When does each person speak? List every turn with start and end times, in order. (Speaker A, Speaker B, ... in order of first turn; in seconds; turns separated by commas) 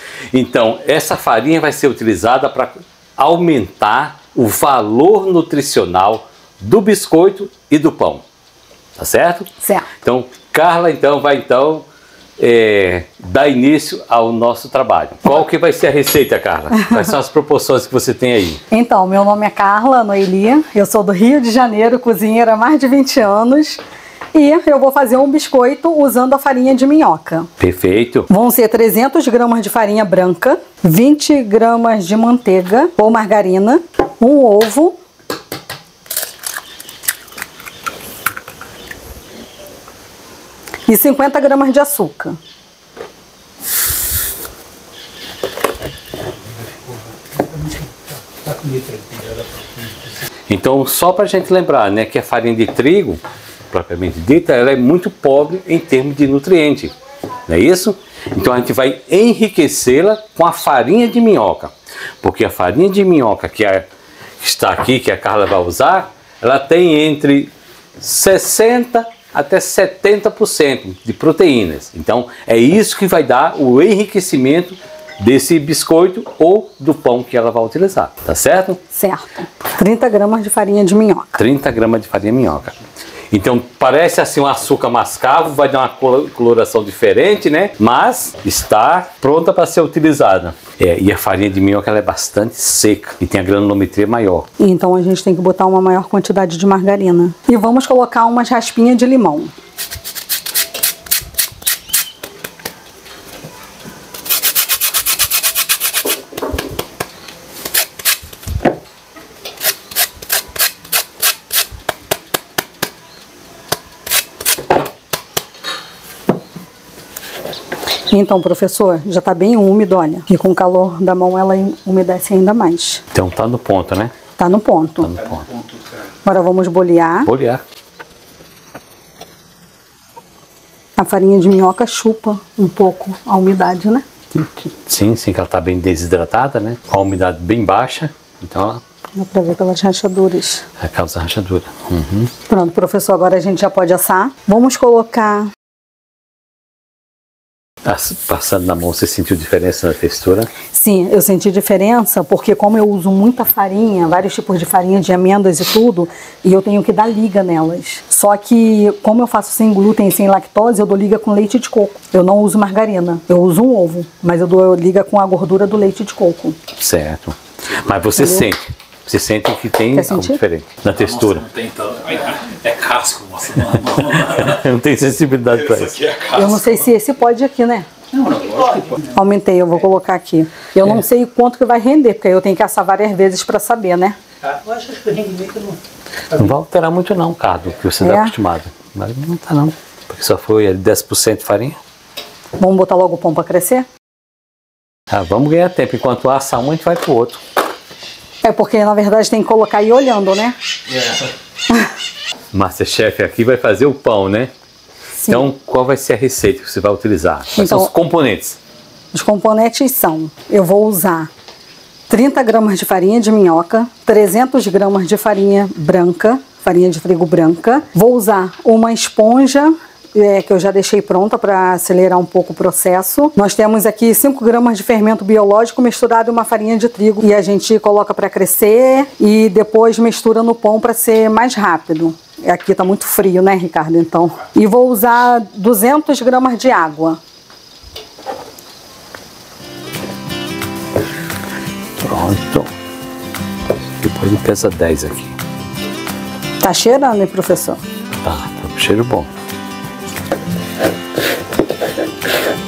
Speaker A: 0.3-8.2, Speaker A: 9.0-9.5, Speaker B: 9.6-9.9, Speaker A: 10.0-11.8, Speaker A: 12.4-18.6, Speaker B: 18.7-23.8, Speaker B: 24.3-27.5, Speaker A: 27.6-28.3, Speaker B: 28.3-35.0, Speaker B: 40.9-42.4, Speaker C: 46.6-50.0, Speaker A: 50.5-53.2, Speaker A: 53.7-56.9, Speaker A: 57.5-63.9, Speaker A: 64.4-78.8, Speaker B: 78.9-81.4, Speaker A: 81.4-82.7, Speaker A: 83.3-94.5, Speaker B: 94.6-99.5, Speaker B: 118.1-123.0, Speaker A: 123.1-124.1, Speaker B: 124.4-125.1, Speaker A: 125.0-125.4, Speaker C: 125.1-126.1, Speaker B: 126.2-127.3, Speaker A: 127.2-127.6, Speaker B: 131.0-134.0, Speaker A: 134.6-138.8, Speaker B: 139.1-140.6, Speaker A: 140.8-142.3, Speaker B: 142.5-145.5, Speaker A: 147.8-150.5, Speaker B: 150.7-166.6, Speaker A: 166.8-171.4, Speaker B: 168.2-168.5, Speaker B: 169.9-170.4, Speaker D: 170.9-174.7, Speaker C: 172.1-172.3, Speaker A: 174.1-175.9, Speaker D: 175.5-176.9, Speaker B: 176.3-177.9, Speaker C: 178.1-179.2, Speaker B: 179.1-184.2, Speaker C: 184.4-185.8, Speaker A: 186.4-191.8, Speaker B: 188.0-188.3, Speaker B: 192.6-193.9, Speaker A: 195.1-197.4, Speaker B: 198.4-200.6, Speaker A: 202.5-204.5, Speaker B: 205.2-205.5, Speaker A: 205.3-208.6, Speaker B: 207.6-207.9, Speaker B: 209.1-211.3, Speaker B: 212.1-237.2, Speaker A: 242.0-242.7, Speaker A: 244.0-245.3, Speaker B: 246.6-247.8, Speaker A: 248.2-249.3